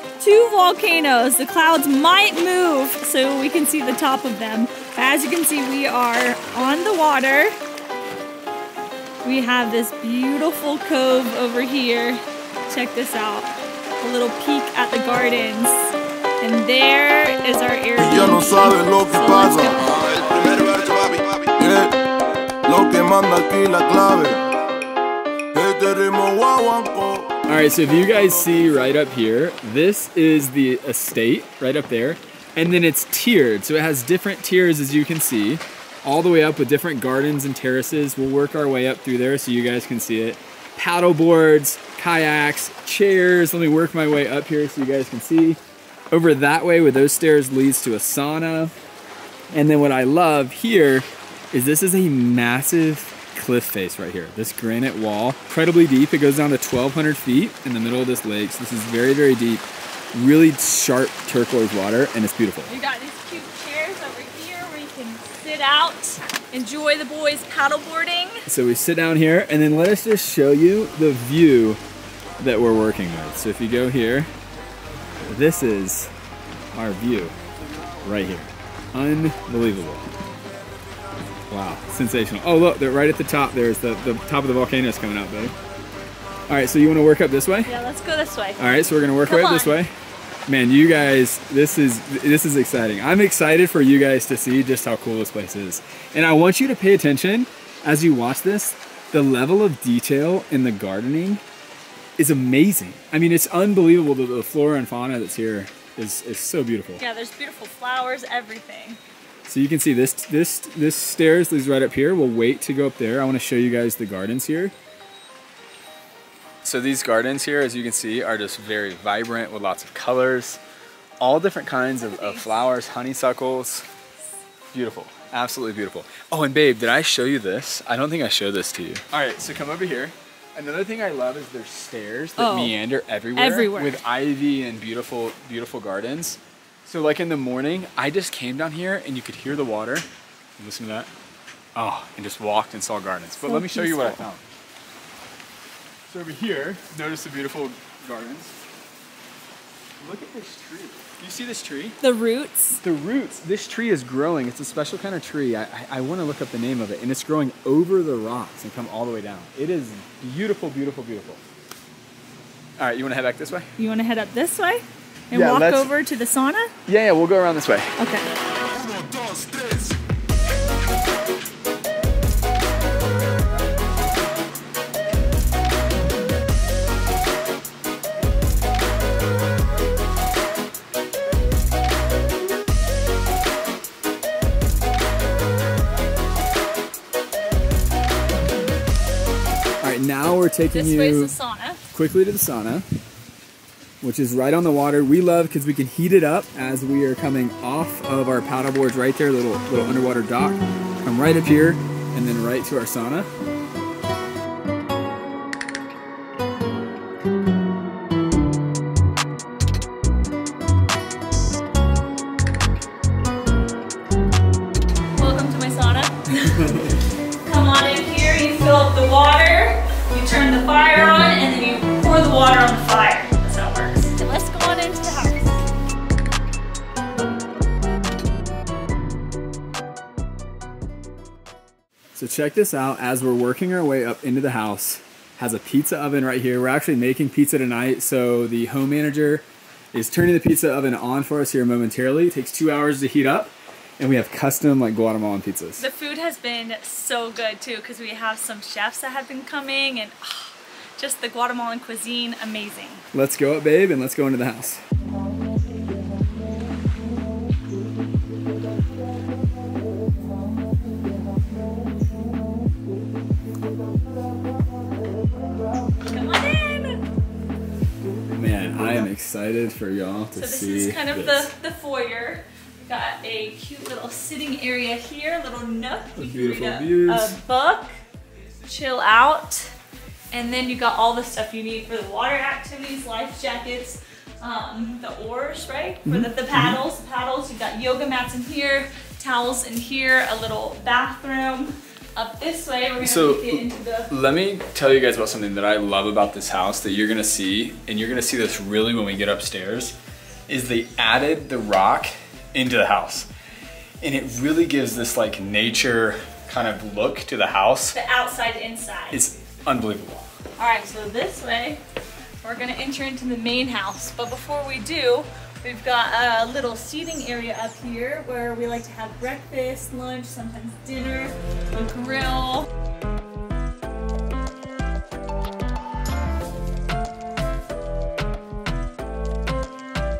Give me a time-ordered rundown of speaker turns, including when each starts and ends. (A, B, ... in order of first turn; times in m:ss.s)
0:00.2-0:07.5 A
0:09.2-0:19.9 A
0:18.0-0:22.0 B
0:22.6-0:24.4 B
0:25.5-0:27.4 B
0:27.5-0:45.6 C
0:46.1-0:48.7 C
0:49.5-1:02.7 C
1:02.7-1:08.5 A
1:08.4-1:11.8 C
1:12.4-1:14.3 C
1:15.2-1:16.1 C
1:16.7-1:17.4 C
1:18.0-1:20.1 C
1:21.5-1:25.5 C
1:26.5-1:27.7 C
1:27.6-1:29.8 A
1:28.6-1:29.9 C
1:30.5-1:41.4 C
1:42.2-1:47.0 C
1:47.0-1:49.0 A
1:49.5-1:54.7 C
1:56.6-2:00.6 C
2:01.2-2:03.9 C
2:02.0-2:02.6 A
2:04.7-2:20.0 C
2:12.4-2:12.7 A
2:13.3-2:14.0 A
2:20.6-2:21.1 C
2:21.7-2:24.5 C
2:23.4-2:24.3 A
2:26.1-2:28.5 C
2:30.0-2:32.0 C
2:32.0-2:32.8 A
2:32.8-2:41.4 C
2:42.8-2:43.7 C
2:43.8-2:46.7 A
2:45.3-2:45.9 C
2:46.9-2:47.9 C
2:48.0-2:48.3 A
2:48.8-2:50.0 B
3:09.8-3:11.3 C
3:10.7-3:11.8 A
3:11.9-3:12.8 C
3:14.0-3:23.3 C
3:35.1-3:36.8 A
3:37.4-3:45.6 A
3:52.1-4:05.8 C
4:05.8-4:13.0 A
4:13.1-4:14.8 C
4:26.0-4:27.0 A
4:28.3-4:31.5 C
4:30.3-4:37.9 A
4:36.2-4:37.4 C
4:38.6-4:39.7 A
4:40.3-4:54.1 A
4:46.0-4:46.8 C
4:53.0-5:00.0 C
5:00.5-5:03.3 C
5:04.0-5:08.0 C
5:07.9-5:09.2 A
5:09.1-5:10.2 C
5:10.6-5:11.8 A
5:12.4-5:22.7 A